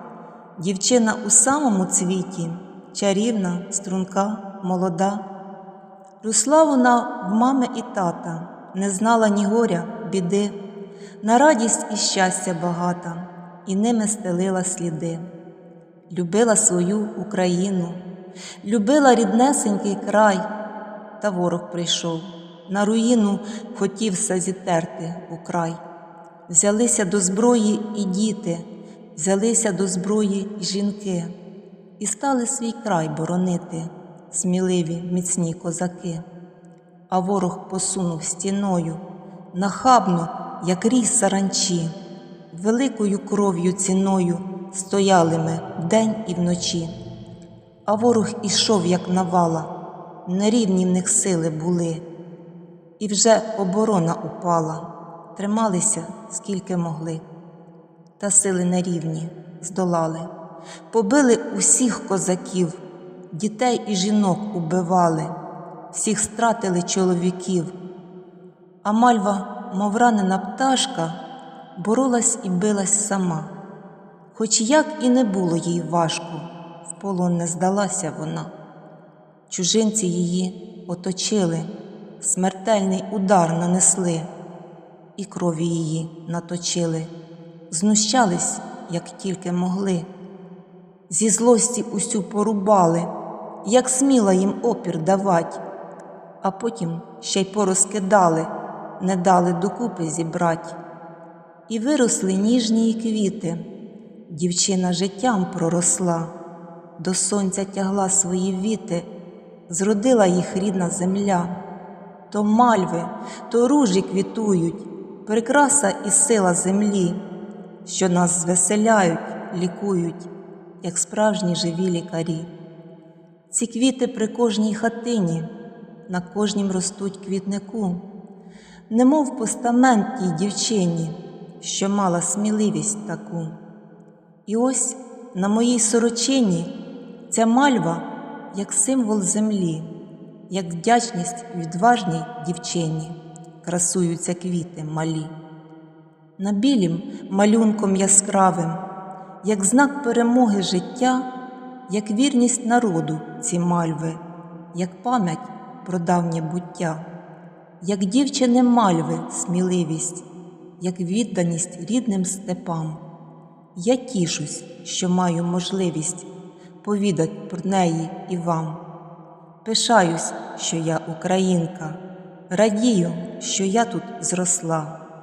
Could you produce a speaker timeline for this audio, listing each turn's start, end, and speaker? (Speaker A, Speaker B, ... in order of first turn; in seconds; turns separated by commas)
Speaker A: 0.6-5.2, Speaker A: 6.2-10.6, Speaker A: 11.2-15.2, Speaker A: 16.1-18.0, Speaker A: 18.6-20.4, Speaker A: 21.2-25.8, Speaker A: 26.5-31.3, Speaker A: 32.0-36.2, Speaker A: 37.1-41.9, Speaker A: 42.5-46.9, Speaker A: 47.9-49.7, Speaker A: 50.2-52.0, Speaker A: 53.0-57.2, Speaker A: 58.2-60.3, Speaker A: 60.9-62.8, Speaker A: 63.3-65.3, Speaker A: 65.9-67.7, Speaker A: 68.8-71.2, Speaker A: 71.8-73.5, Speaker A: 74.3-78.5, Speaker A: 79.5-84.3, Speaker A: 85.2-87.1, Speaker A: 87.7-90.1, Speaker A: 91.1-93.1, Speaker A: 93.6-95.6, Speaker A: 96.4-100.8, Speaker A: 101.7-103.7, Speaker A: 104.3-106.3, Speaker A: 107.0-109.1, Speaker A: 109.7-111.5, Speaker A: 112.3-117.2, Speaker A: 117.8-120.3, Speaker A: 120.8-122.5, Speaker A: 123.5-125.5, Speaker A: 126.1-128.0, Speaker A: 128.9-133.6, Speaker A: 134.4-136.7, Speaker A: 137.3-139.9, Speaker A: 140.5-145.3, Speaker A: 146.4-148.8, Speaker A: 149.4-151.2, Speaker A: 151.9-154.2, Speaker A: 154.7-157.0, Speaker A: 157.8-160.2, Speaker A: 160.8-163.0, Speaker A: 163.8-166.3, Speaker A: 166.8-168.8, Speaker A: 169.6-174.9